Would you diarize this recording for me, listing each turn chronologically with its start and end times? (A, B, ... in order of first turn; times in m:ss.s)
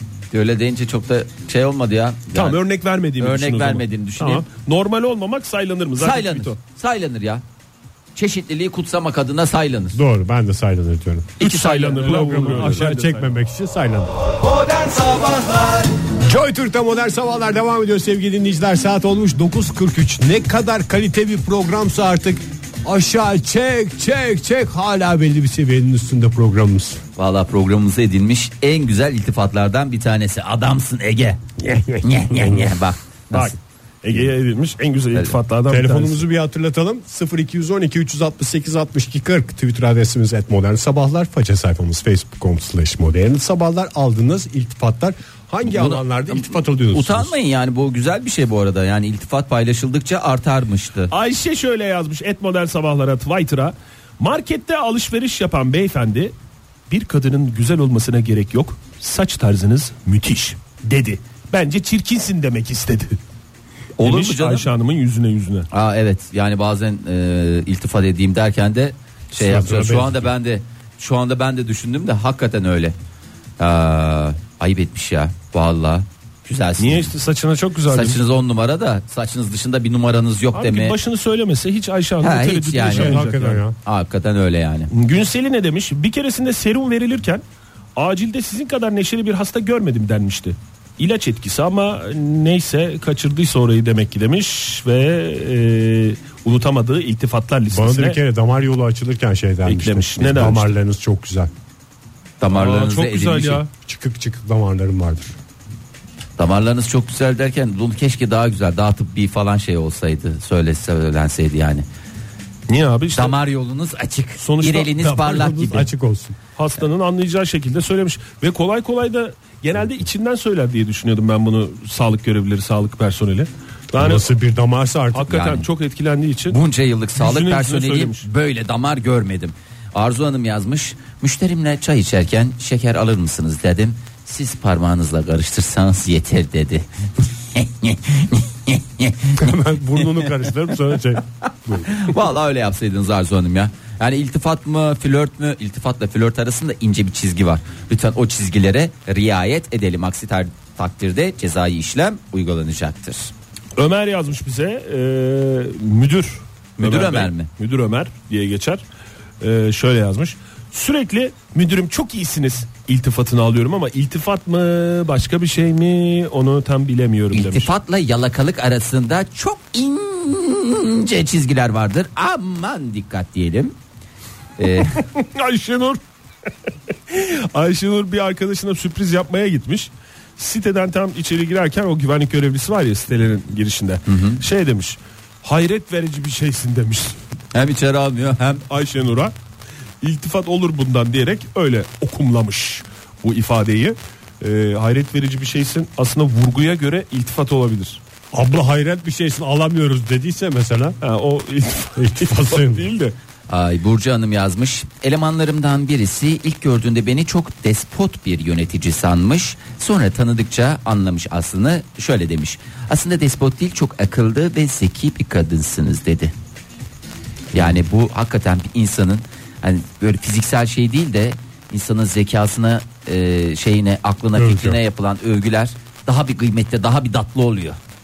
0:00.3-0:02.6 A
0:02.3-0:06.6 B
0:03.2-0:04.5 A
0:06.0-0:07.4 A
0:08.2-0:10.0 A
0:09.9-0:11.4 C
0:11.4-0:12.8 A
0:11.4-0:13.3 B
0:12.0-0:14.3 C
0:14.6-0:15.9 A
0:16.1-0:27.0 C
0:27.2-0:33.6 A
0:31.6-0:32.6 C
0:33.3-0:36.2 B
0:35.7-0:47.4 C
0:45.6-0:51.1 A
0:51.1-0:56.3 B
0:56.9-1:03.2 B
1:04.0-1:04.7 A
1:04.0-1:05.7 B
1:05.7-1:13.0 A
1:09.3-1:10.3 C
1:13.6-1:17.1 A
1:16.8-1:18.2 B
1:17.9-1:21.0 A
1:20.5-1:23.6 B
1:22.2-1:23.2 A
1:22.9-1:23.8 C
1:23.8-1:24.9 A
1:24.9-1:27.4 B
1:28.0-1:38.2 B
1:37.7-1:41.5 C
1:39.7-1:40.7 B
1:42.4-1:43.6 A
1:42.5-1:43.7 B
1:43.8-1:45.3 C
1:46.4-1:51.8 A
1:52.7-1:53.4 B
1:53.1-1:55.9 A
1:54.4-1:55.2 B
1:55.0-1:56.4 C
1:56.6-2:04.3 B
2:03.9-2:05.4 C
2:05.1-2:06.6 B
2:05.3-2:05.7 A
2:06.5-2:20.5 A
2:07.2-2:08.3 B
2:19.4-2:22.1 C
2:21.8-2:33.3 A
2:33.8-2:38.8 B
2:36.8-2:37.5 A
2:39.4-2:47.7 B
2:47.3-2:53.8 A
2:54.6-2:55.0 A
2:54.8-2:56.0 B
2:57.1-3:07.2 B
3:04.1-3:04.4 A
3:07.5-3:08.6 A
3:08.7-3:09.3 B
3:10.0-3:18.0 B
3:18.3-3:21.0 C
3:21.0-3:23.2 B
3:22.0-3:22.9 C
3:23.5-3:36.3 A
3:37.5-3:47.8 A
3:44.3-3:44.8 C